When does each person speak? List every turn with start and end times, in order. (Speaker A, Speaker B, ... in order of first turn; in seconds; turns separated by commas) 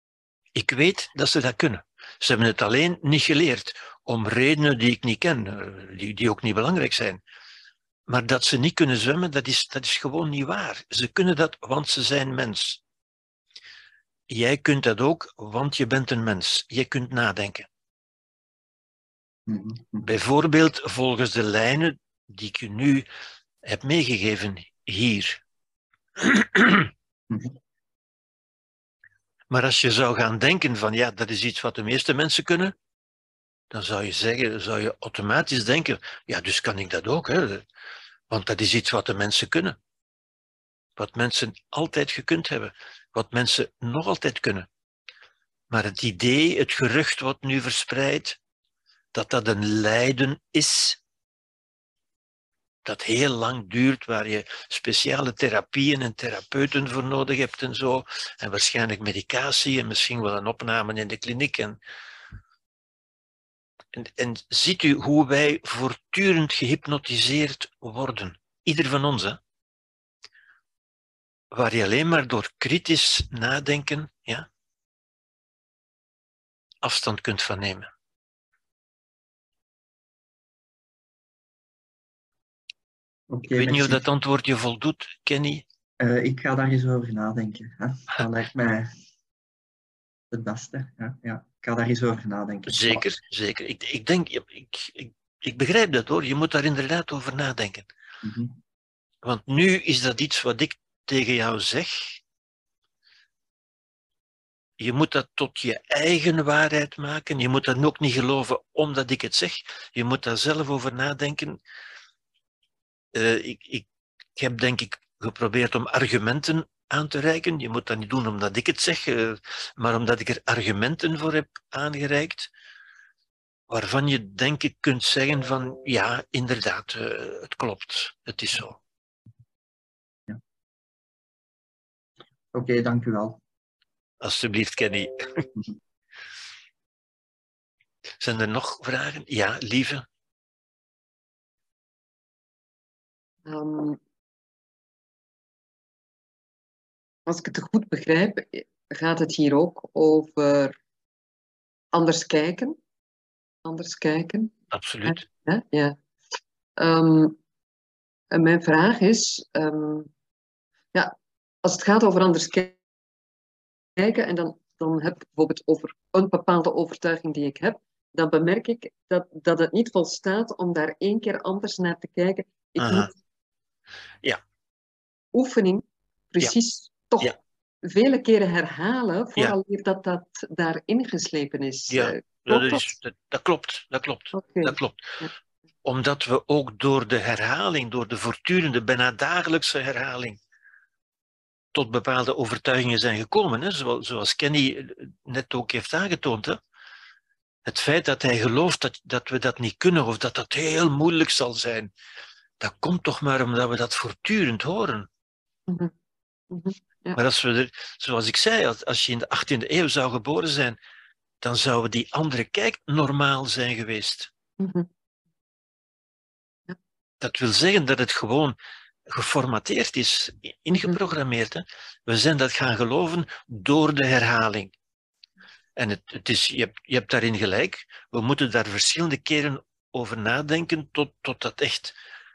Speaker A: 0.5-7.2, Speaker A: 8.1-12.8, Speaker A: 14.3-17.7, Speaker B: 19.5-20.0, Speaker A: 20.0-23.1, Speaker A: 23.6-25.4, Speaker A: 26.2-26.9, Speaker B: 27.3-27.6, Speaker A: 29.5-32.7, Speaker A: 33.7-37.6, Speaker A: 38.3-39.8, Speaker A: 41.0-44.7, Speaker A: 45.7-48.4, Speaker A: 49.1-51.0, Speaker A: 52.8-61.8, Speaker A: 63.9-69.4, Speaker A: 71.5-74.5, Speaker A: 76.8-77.9, Speaker B: 83.3-84.0, Speaker A: 83.5-85.7, Speaker B: 86.0-88.9, Speaker B: 90.3-93.1, Speaker A: 92.7-97.9, Speaker B: 98.2-98.6, Speaker A: 99.2-102.2, Speaker A: 104.8-111.6, Speaker A: 113.1-122.5, Speaker A: 123.7-128.8, Speaker B: 132.5-133.4, Speaker A: 134.2-135.5, Speaker A: 138.2-140.1, Speaker C: 143.4-144.0, Speaker C: 147.2-150.8, Speaker C: 151.9-152.8, Speaker C: 153.6-156.0, Speaker A: 154.7-155.2, Speaker C: 156.8-157.4, Speaker C: 158.3-160.1, Speaker C: 160.9-162.8, Speaker C: 164.0-173.1, Speaker A: 172.8-173.1, Speaker C: 175.3-182.9, Speaker A: 181.9-185.2, Speaker C: 184.3-185.3, Speaker A: 185.8-190.4, Speaker A: 191.7-196.6, Speaker A: 197.7-201.9, Speaker A: 202.6-205.1, Speaker C: 205.7-205.9, Speaker C: 206.5-207.2, Speaker A: 207.1-210.8, Speaker A: 211.4-214.3, Speaker C: 214.6-214.9, Speaker A: 217.2-218.6, Speaker A: 219.1-224.7, Speaker A: 225.8-231.9